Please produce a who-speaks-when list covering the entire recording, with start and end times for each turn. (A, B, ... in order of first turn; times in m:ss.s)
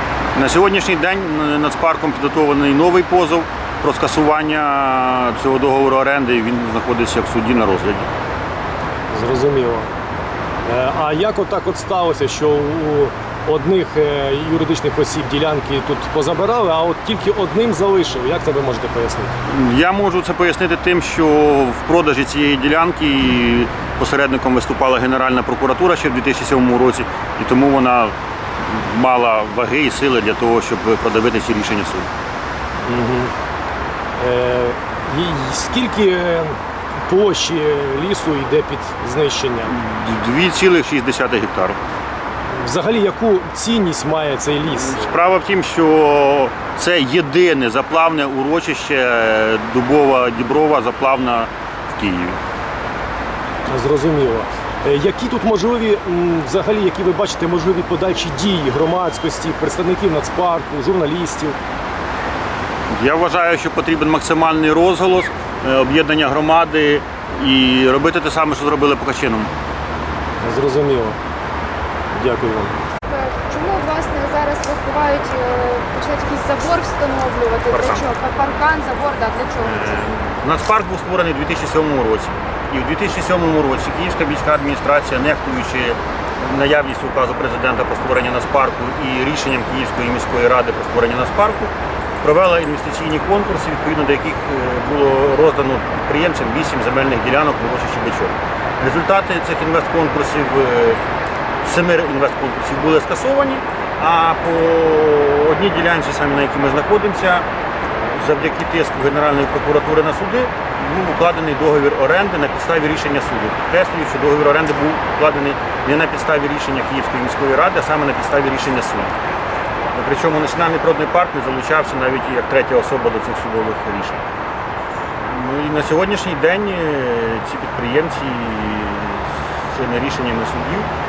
0:00.3-0:08.1 A
0:09.1-0:09.9 B
0:10.7-0:19.3 B
0:19.5-0:32.1 A
0:32.8-0:33.3 B
0:34.2-0:39.7 B
0:39.7-0:41.8 A
0:42.5-0:45.1 B
0:44.7-0:52.4 A
0:53.7-1:01.6 B
1:02.9-1:09.5 A
1:10.4-1:11.2 B
1:12.2-1:12.8 B
1:13.1-1:20.2 C
1:17.7-1:18.1 A
1:19.6-1:31.7 A
1:32.2-1:41.0 A
1:41.6-1:47.4 A
1:48.1-1:59.1 A
1:59.9-2:04.2 A
2:05.2-2:10.9 A